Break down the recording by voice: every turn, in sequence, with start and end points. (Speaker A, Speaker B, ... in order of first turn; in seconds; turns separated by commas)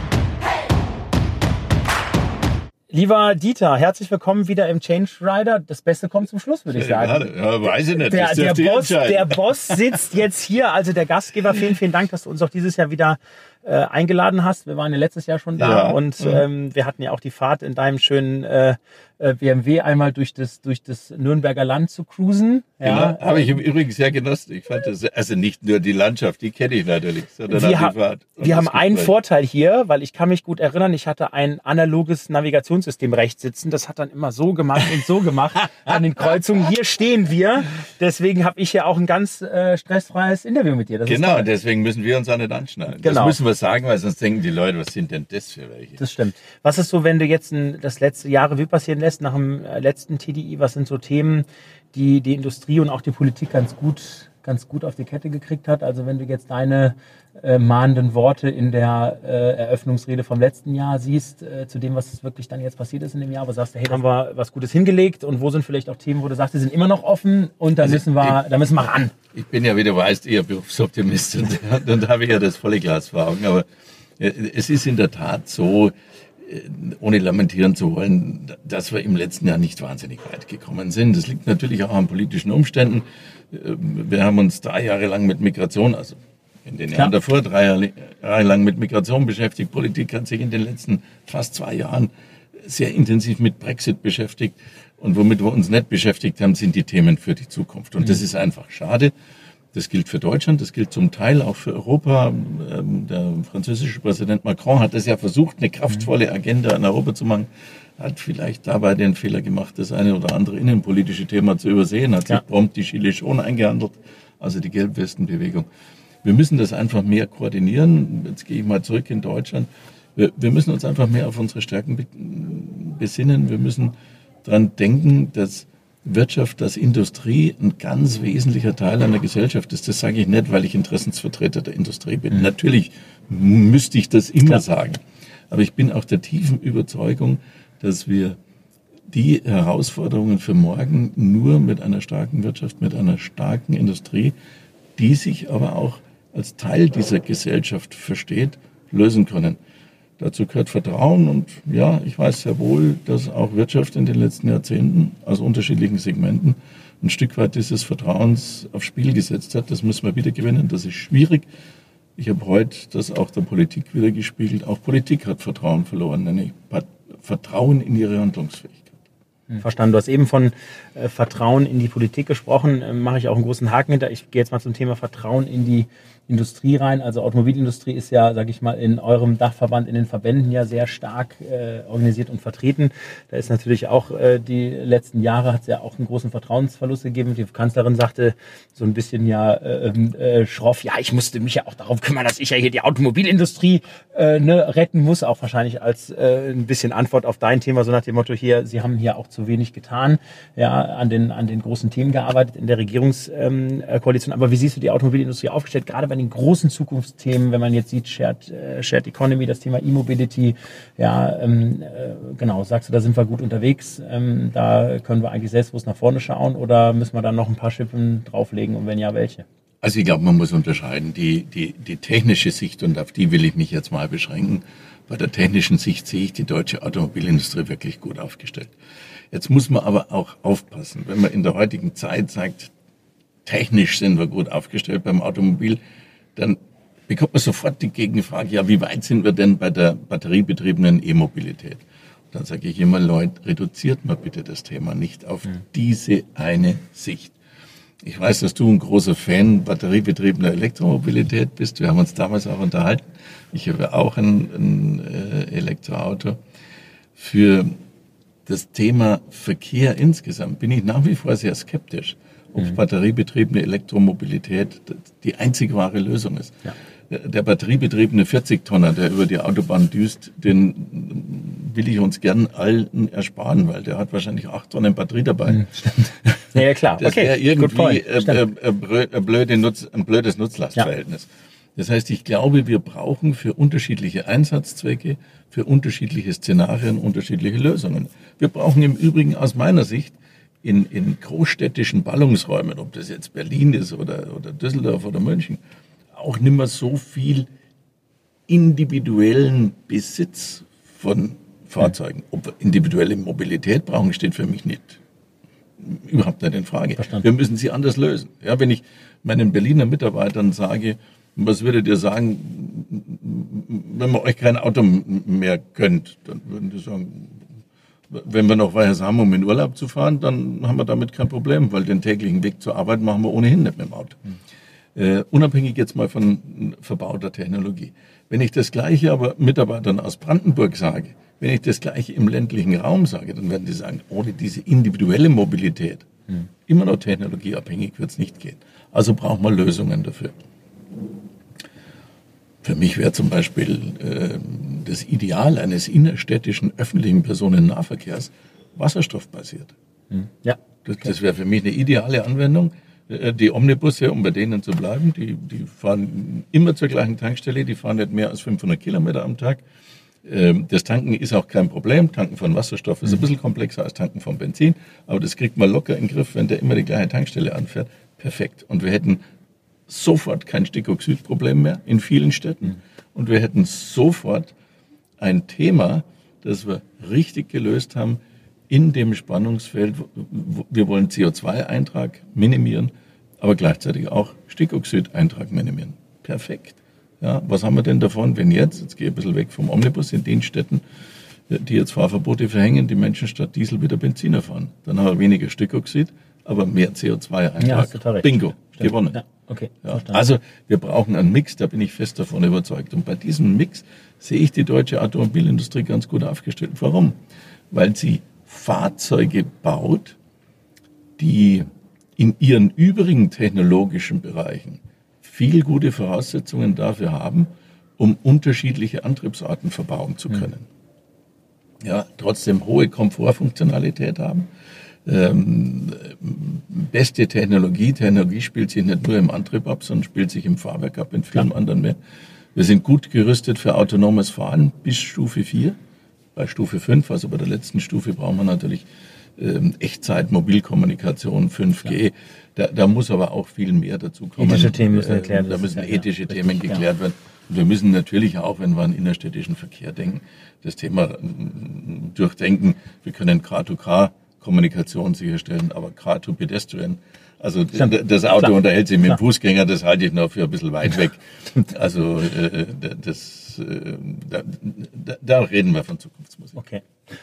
Speaker A: 2.9-23.5, Speaker B: 6.7-9.4, Speaker B: 15.6-16.4, Speaker B: 22.8-29.1, Speaker A: 27.5-41.5, Speaker B: 41.1-46.0, Speaker A: 43.0-43.4, Speaker A: 46.0-69.1, Speaker B: 67.8-68.4, Speaker B: 69.3-73.7, Speaker B: 74.2-99.1, Speaker B: 99.7-115.7, Speaker B: 116.2-138.4, Speaker B: 139.1-144.3, Speaker B: 145.0-149.6, Speaker B: 150.2-161.5, Speaker B: 162.2-168.9, Speaker A: 169.5-219.4, Speaker B: 219.8-228.7, Speaker B: 229.3-232.7, Speaker B: 233.4-235.8, Speaker B: 236.4-247.3, Speaker B: 248.0-256.4, Speaker B: 257.2-257.8, Speaker B: 258.5-295.6, Speaker A: 275.6-278.4, Speaker B: 296.1-297.5, Speaker B: 298.5-305.0, Speaker B: 305.8-317.4, Speaker A: 307.0-307.2, Speaker B: 318.1-324.2, Speaker B: 325.0-336.1, Speaker B: 336.7-340.3, Speaker B: 342.6-349.7, Speaker A: 350.1-350.6, Speaker B: 350.9-359.6, Speaker B: 360.2-369.2, Speaker B: 369.9-374.5, Speaker B: 375.2-378.2, Speaker B: 378.7-390.8, Speaker B: 391.5-399.2, Speaker A: 397.6-400.2, Speaker B: 399.8-407.2, Speaker B: 407.7-410.2, Speaker B: 411.2-420.6, Speaker B: 421.8-424.5, Speaker B: 425.1-432.0, Speaker B: 432.6-435.8, Speaker B: 436.4-438.9, Speaker B: 439.4-466.6, Speaker A: 444.4-446.8, Speaker A: 457.8-458.5, Speaker A: 466.6-466.8